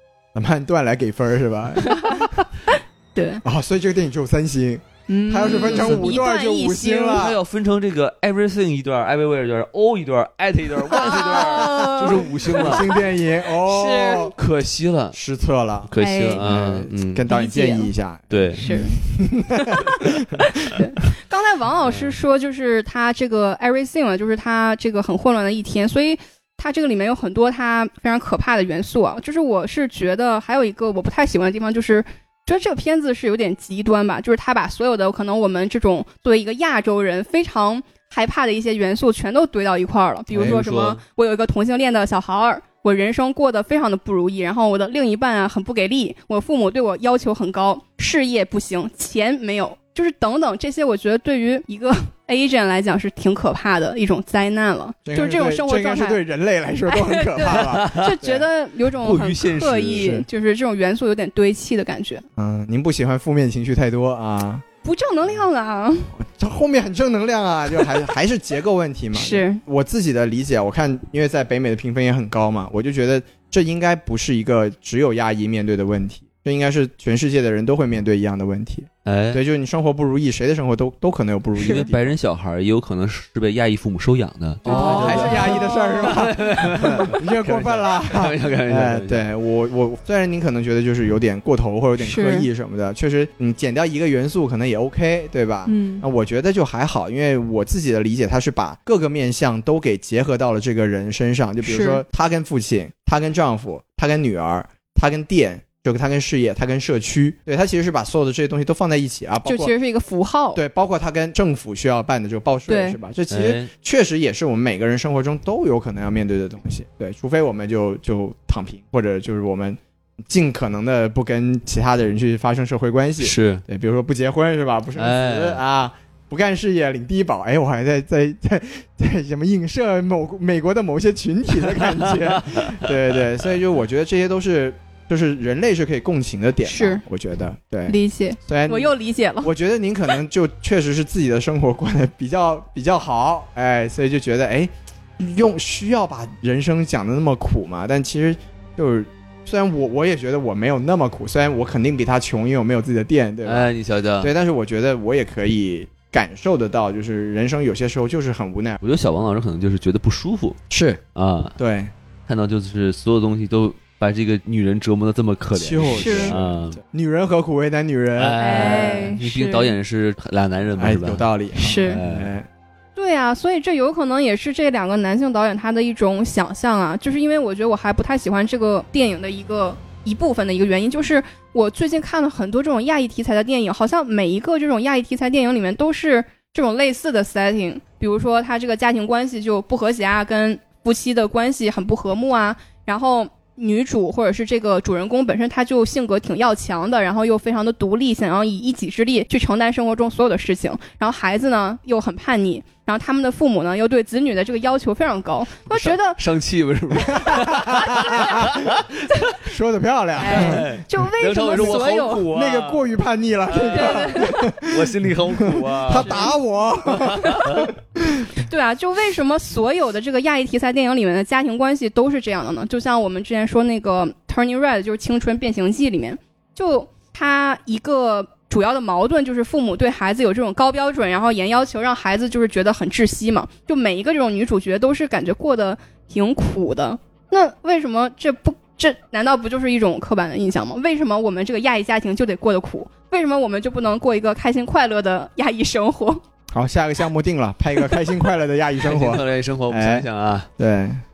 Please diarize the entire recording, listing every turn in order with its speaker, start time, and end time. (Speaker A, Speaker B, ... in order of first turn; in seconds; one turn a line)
Speaker A: 0.3-2.3
Speaker B: 1.8-3.4
Speaker A: 3.4-7.4
Speaker B: 5.1-7.3
Speaker C: 5.4-6.2
Speaker C: 7.1-12.9
Speaker B: 10.9-13.0
Speaker A: 10.9-14.3
Speaker B: 13.6-14.3
Speaker C: 14.4-15.2
Speaker A: 15.1-20.4
Speaker C: 15.9-17.2
Speaker B: 16.0-16.4
Speaker B: 17.3-17.9
Speaker C: 18.3-18.7
Speaker B: 18.6-19.0
Speaker B: 19.5-20.0
Speaker B: 20.6-56.2
Speaker C: 21.9-22.1
Speaker A: 40.3-40.6
Speaker C: 40.3-41.0
Speaker A: 55.1-58.4
Speaker B: 56.9-62.2
Speaker C: 57.5-58.2
Speaker C: 59.0-60.2
Speaker A: 59.9-60.3
Speaker A: 62.4-64.6
Speaker B: 64.8-66.1
Speaker A: 66.2-82.1
Speaker B: 69.1-69.6
Speaker C: 79.0-79.4
Speaker C: 81.6-89.3
Speaker B: 84.7-86.3
Speaker A: 84.7-109.7
Speaker B: 92.0-92.5
Speaker B: 95.7-96.0
Speaker B: 101.6-102.0
Speaker B: 109.5-110.6
Speaker A: 110.5-158.8
Speaker B: 112.7-113.0
Speaker C: 113.3-113.7
Speaker C: 123.2-123.6
Speaker C: 125.0-125.6
Speaker C: 132.2-132.9
Speaker B: 136.7-137.0
Speaker B: 137.9-139.5
Speaker C: 153.4-154.3
Speaker C: 158.8-160.6
Speaker A: 160.7-161.0
Speaker C: 161.2-161.6
Speaker A: 161.6-161.9
Speaker C: 162.3-166.8
Speaker A: 165.5-169.0
Speaker B: 165.9-166.3
Speaker C: 168.2-172.3
Speaker B: 168.4-169.8
Speaker A: 170.8-172.5
Speaker B: 171.6-172.0
Speaker B: 173.0-206.2
Speaker C: 205.7-209.4
Speaker A: 207.1-208.7
Speaker A: 209.4-210.8
Speaker B: 210.2-212.2
Speaker C: 210.2-212.9
Speaker A: 211.5-218.3
Speaker C: 213.5-216.3
Speaker B: 213.7-214.5
Speaker B: 215.9-216.4
Speaker C: 216.9-217.7
Speaker B: 217.2-217.6
Speaker B: 218.4-246.2
Speaker A: 246.5-250.1
Speaker C: 248.8-250.5
Speaker A: 250.6-251.0